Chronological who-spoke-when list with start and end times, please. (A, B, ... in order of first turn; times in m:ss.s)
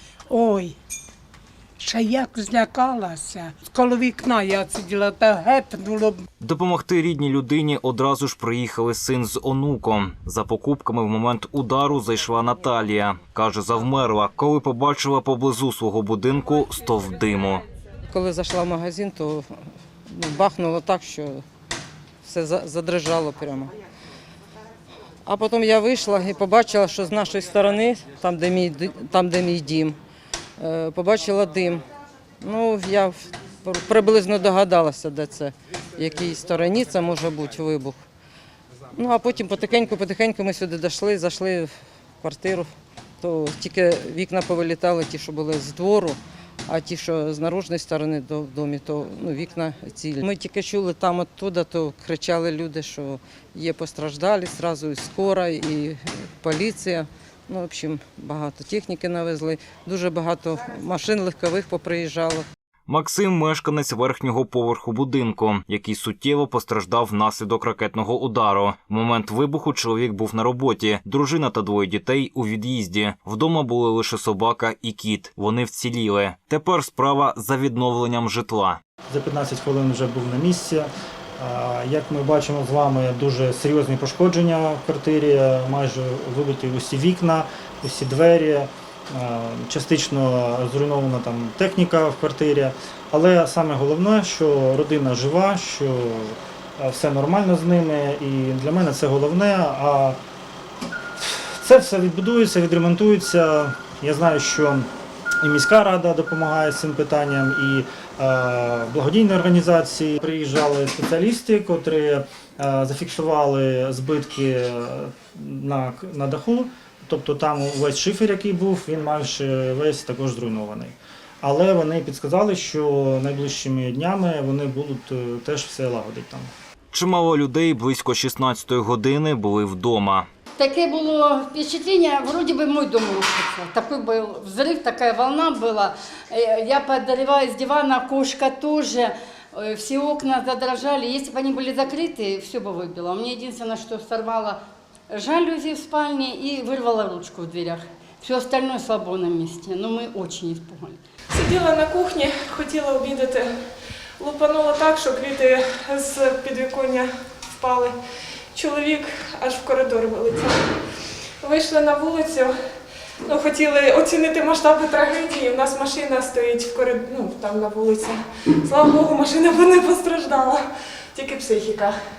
0:00.3-0:00.7 A
0:01.8-0:06.2 A
0:06.4-0:17.6 B
0:18.1-0:19.4 C
0:20.1-0:21.4 C
0:22.2-0:23.7 C
0:25.2-0:30.0 C
0:30.6-0:31.8 C
0:32.4-0:38.0 C
0:38.9-0:41.7 C
0:42.2-0:42.7 C
0:43.2-1:02.4 C
1:02.9-1:18.8 B
1:19.1-1:40.2 D
1:41.2-1:44.9 D
1:45.4-2:06.5 D
2:06.9-2:10.3 B
2:10.6-2:24.6 E
2:25.1-2:31.0 E
2:31.4-2:33.4 F
2:34.2-2:37.0 F
2:37.6-2:37.9 F
2:38.5-2:40.5 F
2:41.4-2:42.5 F
2:43.3-2:50.6 F
2:51.2-2:51.9 F